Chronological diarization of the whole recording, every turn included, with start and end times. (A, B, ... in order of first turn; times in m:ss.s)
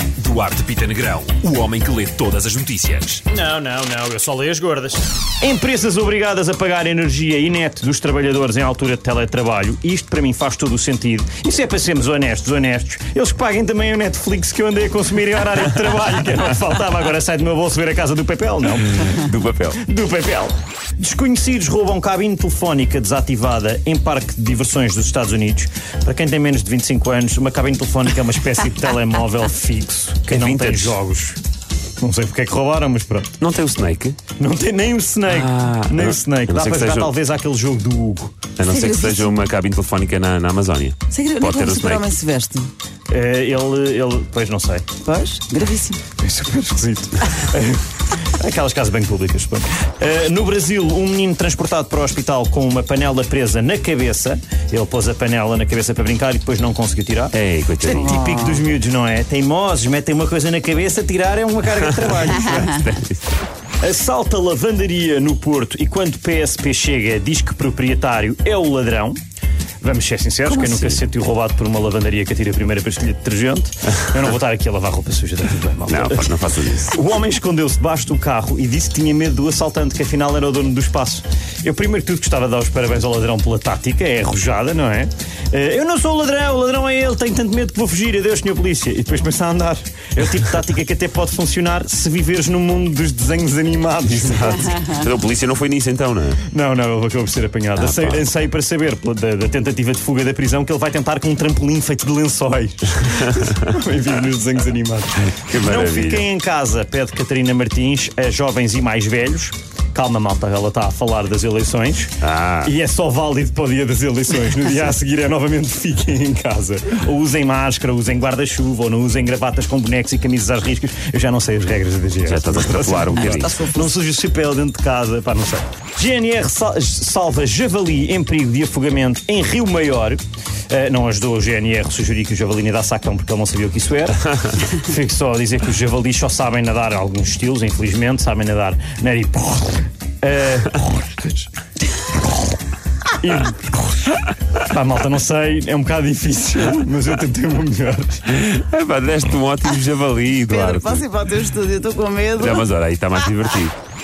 0:00.2-0:03.2 A
0:03.3-0:19.2 B
0:19.0-0:19.8 A
0:19.8-0:31.4 B
0:30.3-0:31.0 A
0:32.0-0:33.4 B
0:33.4-0:34.2 A
0:34.4-0:38.4 B
0:35.3-0:37.1 A
0:38.6-0:42.1 A
0:38.7-0:39.4 C
0:41.1-0:42.7 C
0:43.1-0:44.9 B
0:45.0-0:46.0 C
0:46.2-1:02.8 B
0:57.3-0:58.2 A
0:57.9-0:58.6 C
1:02.5-1:03.3 A
1:03.8-1:09.2 B
1:09.8-1:34.9 B
1:10.6-1:11.0 A
1:15.9-1:17.0 A
1:34.2-1:36.4 A
1:36.5-2:21.4 B
1:37.8-1:38.2 A
1:45.3-1:46.2 A
1:52.2-1:52.7 A
2:02.3-2:03.7 A
2:03.4-2:03.8 C
2:23.2-2:28.2 B
2:28.3-2:31.1 A
2:30.4-2:32.6 C
2:32.4-2:33.7 A